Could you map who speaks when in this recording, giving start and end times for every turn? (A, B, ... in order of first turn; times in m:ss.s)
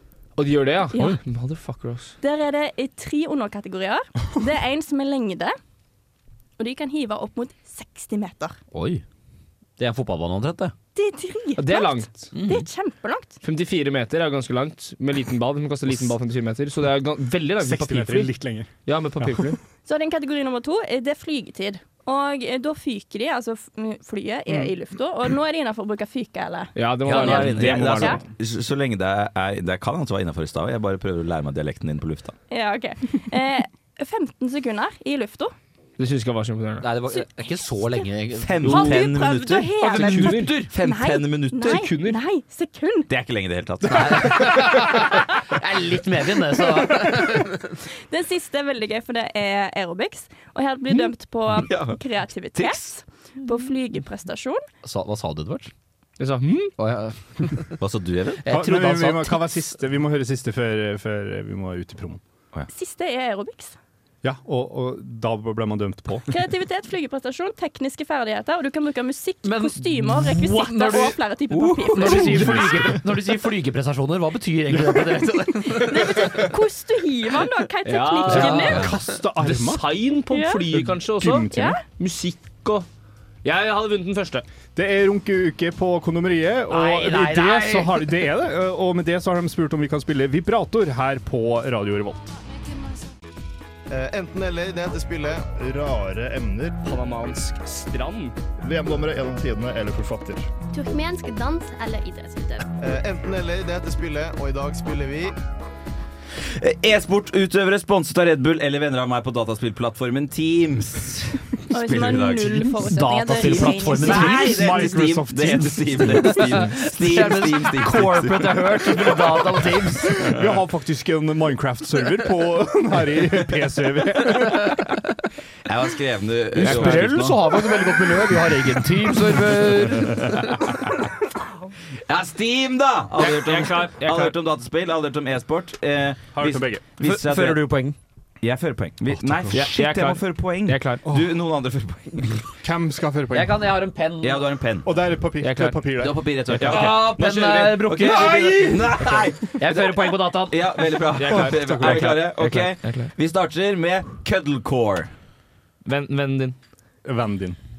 0:00.4-0:02.2 A
0:00.9-0:01.2 B
0:02.2-0:05.5 B
0:06.6-0:08.6 B
0:08.7-0:09.0 C
0:09.8-0:10.7 C
0:10.9-0:13.4 B
0:11.6-0:12.3 A
0:12.3-0:12.6 C
0:13.4-0:18.3 A
0:17.6-0:19.5 D
0:18.8-0:19.6 A
0:19.8-0:28.2 B
0:26.8-0:28.2 A
0:27.0-0:28.1 C
0:27.2-0:32.4 E
0:32.5-0:35.5 B
0:36.0-0:36.8 A
0:36.8-0:39.1 C
0:38.3-0:40.0 E
0:38.6-0:43.1 B
0:39.8-0:40.6 A
0:39.9-0:40.7 C
0:40.6-0:41.8 E
0:41.6-0:42.2 A
0:43.1-0:44.8 E
0:43.8-0:47.5 C
0:48.1-0:54.6 B
0:51.5-0:52.0 E
0:52.5-0:52.9 E
0:54.8-0:55.7 C
0:56.2-0:56.7 A
0:56.8-0:57.8 C
0:57.8-0:58.4 E
0:58.4-0:59.5 C
0:58.5-1:02.2 D
1:02.7-1:03.7 B
1:04.2-1:06.2 D
1:06.3-1:12.9 B
1:09.4-1:15.8 C
1:12.0-1:13.0 D
1:15.6-1:18.9 B
1:17.8-1:22.8 A
1:18.2-1:18.8 C
1:18.3-1:20.1 D
1:20.3-1:20.7 B
1:20.7-1:21.8 D
1:21.5-1:21.8 B
1:23.4-1:24.4 A
1:24.7-1:32.3 D
1:26.7-1:28.2 C
1:33.9-1:36.8 F
1:36.8-1:38.4 A
1:38.6-1:40.5 F
1:40.7-1:42.7 G
1:42.8-1:45.3 F
1:46.6-1:52.7 E
1:51.7-1:54.4 B
1:52.8-1:54.9 C
1:53.5-2:00.6 E
1:54.1-1:56.4 D
1:56.1-2:00.2 C
2:00.2-2:05.0 D
2:05.6-2:07.4 E
2:06.6-2:10.4 C
2:06.6-2:09.6 D
2:06.6-2:06.9 A
2:12.1-2:17.7 E
2:13.2-2:14.3 A
2:16.3-2:16.8 D
2:17.0-2:17.9 C
2:18.4-2:22.5 E
2:19.1-2:19.9 D
2:19.5-2:21.0 A
2:21.0-2:21.4 D
2:22.6-2:23.7 D
2:23.3-2:24.4 C
2:24.2-2:25.0 E
2:24.8-2:26.9 D
2:25.4-2:25.9 A
2:26.0-2:35.1 E
2:26.6-2:28.8 C
2:26.6-2:27.1 A
2:29.6-2:30.6 C
2:31.2-2:33.1 A
2:31.2-2:32.2 D
2:35.8-2:36.6 A
2:37.0-2:37.6 D